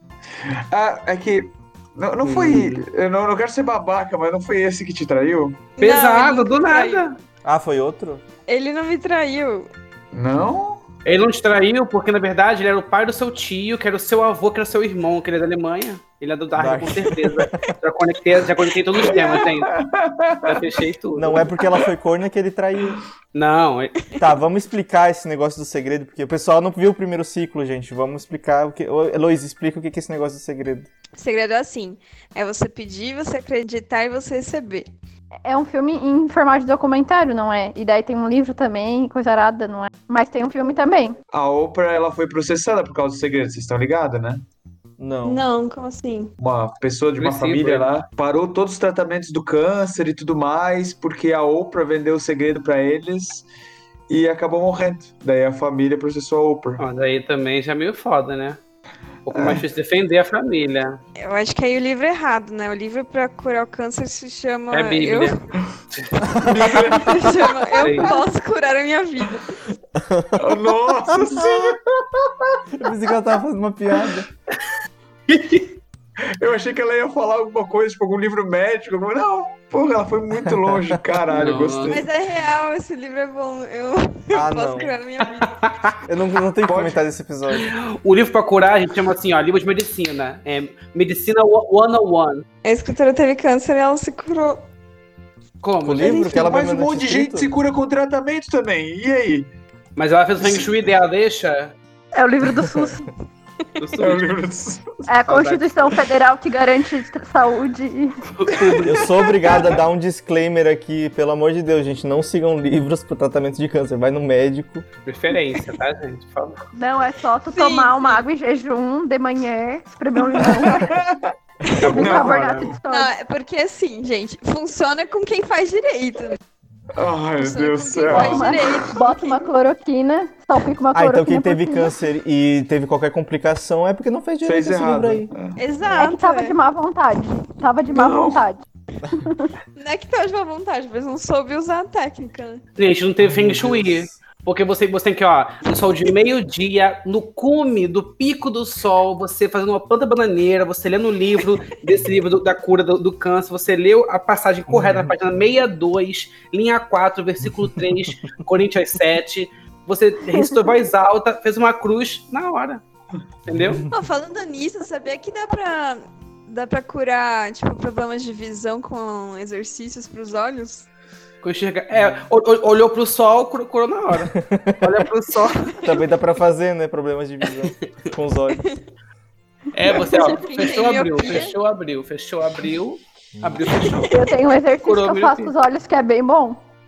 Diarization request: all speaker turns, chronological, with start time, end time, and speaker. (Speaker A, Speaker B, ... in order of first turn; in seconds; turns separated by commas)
Speaker A: 0.4-5.6, Speaker B: 2.2-2.9, Speaker C: 5.8-7.0, Speaker B: 5.8-7.2, Speaker D: 7.4-8.2, Speaker C: 8.5-9.7, Speaker A: 10.1-10.8, Speaker B: 11.1-19.7, Speaker D: 16.6-17.7, Speaker A: 19.0-20.7, Speaker C: 19.1-19.5, Speaker B: 20.4-21.5, Speaker D: 21.2-23.0, Speaker B: 23.3-24.0, Speaker D: 24.2-30.9, Speaker C: 31.2-34.9, Speaker E: 35.5-41.1, Speaker A: 41.3-44.4, Speaker D: 45.0-45.5, Speaker C: 45.2-46.3, Speaker A: 46.4-53.5, Speaker B: 47.2-47.9, Speaker A: 54.1-56.8, Speaker B: 56.8-58.6, Speaker B: 59.3-61.0, Speaker A: 59.3-59.6, Speaker C: 61.2-65.4, Speaker B: 64.7-65.4, Speaker D: 66.2-67.0, Speaker A: 66.3-67.6, Speaker C: 66.7-69.6, Speaker B: 67.8-68.2, Speaker D: 70.0-70.5, Speaker A: 70.3-72.6, Speaker D: 71.1-71.7, Speaker D: 72.7-74.3, Speaker B: 75.3-75.7, Speaker A: 76.2-82.1, Speaker D: 80.5-81.0, Speaker B: 81.3-82.0, Speaker C: 81.9-85.6, Speaker D: 84.3-84.9, Speaker B: 85.5-86.0, Speaker D: 86.1-87.7, Speaker A: 86.7-87.0, Speaker B: 87.5-92.5, Speaker C: 92.6-94.6, Speaker B: 95.6-96.3, Speaker D: 95.8-97.5, Speaker A: 96.0-99.5, Speaker B: 100.0-101.8, Speaker A: 100.4-100.7, Speaker E: 102.1-103.1, Speaker D: 102.6-103.0, Speaker B: 103.8-104.3, Speaker A: 104.0-105.0, Speaker E: 105.1-108.1, Speaker B: 105.3-105.7, Speaker B: 108.3-109.1, Speaker D: 108.8-114.8, Speaker B: 115.0-116.6, Speaker E: 116.8-121.0, Speaker C: 117.5-118.3, Speaker A: 120.3-121.3, Speaker E: 121.7-123.1, Speaker B: 121.8-122.7, Speaker A: 121.9-122.7, Speaker C: 122.9-126.4, Speaker A: 126.9-128.8, Speaker C: 127.4-129.5, Speaker E: 128.1-132.0, Speaker D: 130.9-135.3, Speaker A: 134.4-135.6, Speaker C: 135.6-136.6, Speaker E: 135.9-139.5, Speaker A: 137.9-138.4, Speaker C: 139.8-142.6, Speaker B: 142.8-162.8, Speaker D: 143.2-144.2, Speaker D: 154.7-155.1, Speaker B: 163.5-163.9, Speaker C: 163.9-170.9, Speaker B: 171.4-175.8, Speaker D: 171.9-172.2, Speaker D: 174.3-174.9, Speaker D: 175.8-178.7, Speaker B: 179.7-185.5, Speaker C: 179.9-181.6, Speaker D: 183.4-183.7, Speaker C: 183.8-184.2, Speaker E: 184.1-186.6